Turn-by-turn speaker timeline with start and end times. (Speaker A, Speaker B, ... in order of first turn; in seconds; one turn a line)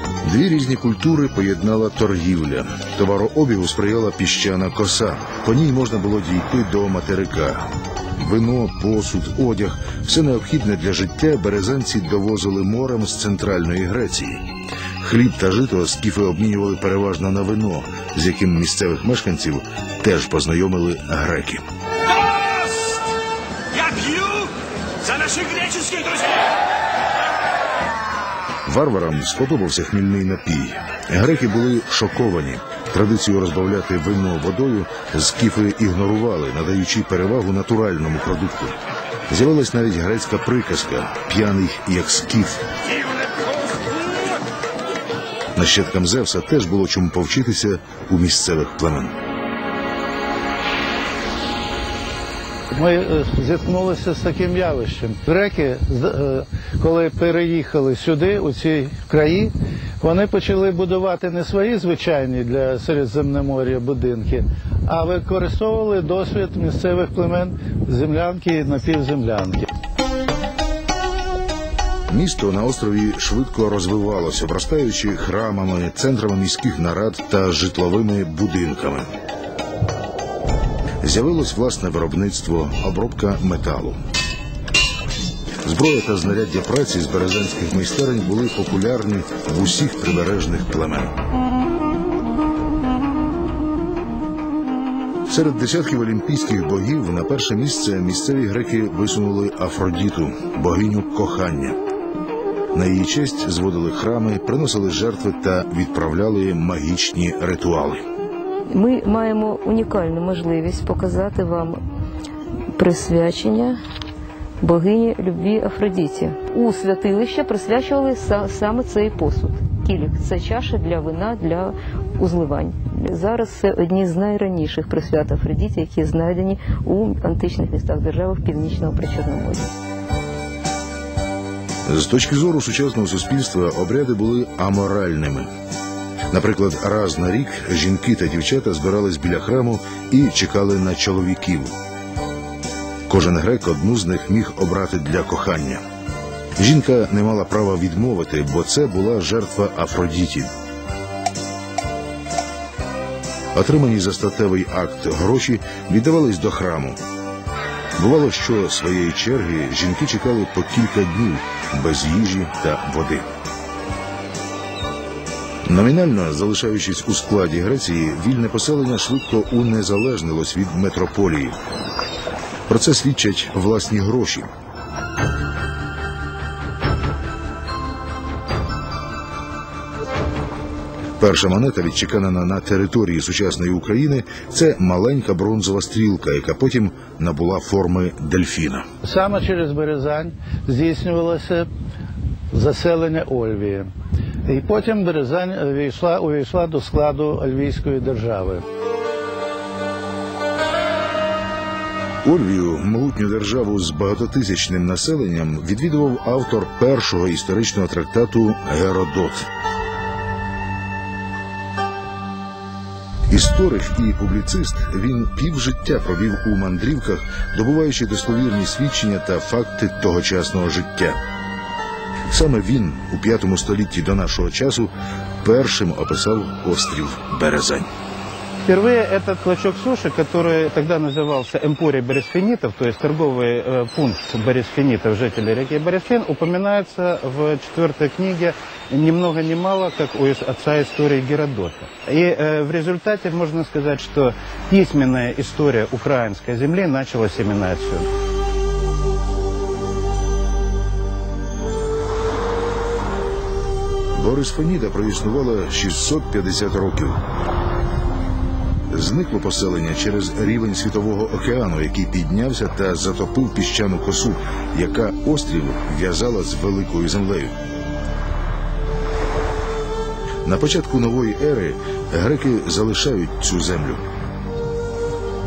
Speaker A: 0.2-14.4
Speaker A: 15.0-21.6
Speaker B: 22.1-23.0
Speaker B: 23.7-24.5
Speaker B: 25.0-26.4
Speaker A: 28.7-38.8
Speaker A: 39.3-42.6
Speaker A: 45.6-49.1
Speaker C: 52.7-69.7
Speaker A: 72.1-79.1
Speaker A: 81.0-84.0
Speaker A: 85.6-91.2
Speaker A: 95.3-101.8
Speaker A: 102.7-108.0
Speaker D: 108.7-111.8
Speaker D: 112.8-113.8
Speaker D: 114.6-129.7
Speaker A: 131.9-135.5
Speaker A: 136.3-141.7
Speaker A: 143.1-145.8
Speaker A: 146.6-150.5
Speaker A: 153.5-157.0
Speaker A: 158.0-163.3
Speaker A: 165.7-171.6
Speaker A: 172.7-174.5
Speaker A: 181.2-188.9
Speaker C: 189.0-191.7
Speaker C: 192.5-193.9
Speaker C: 194.5-198.6
Speaker A: 202.2-209.5
Speaker A: 213.3-221.2
Speaker A: 222.3-224.9
Speaker A: 225.4-227.9
Speaker E: 228.7-248.1
Speaker A: 254.2-257.2
Speaker A: 258.9-267.6
Speaker A: 270.4-274.0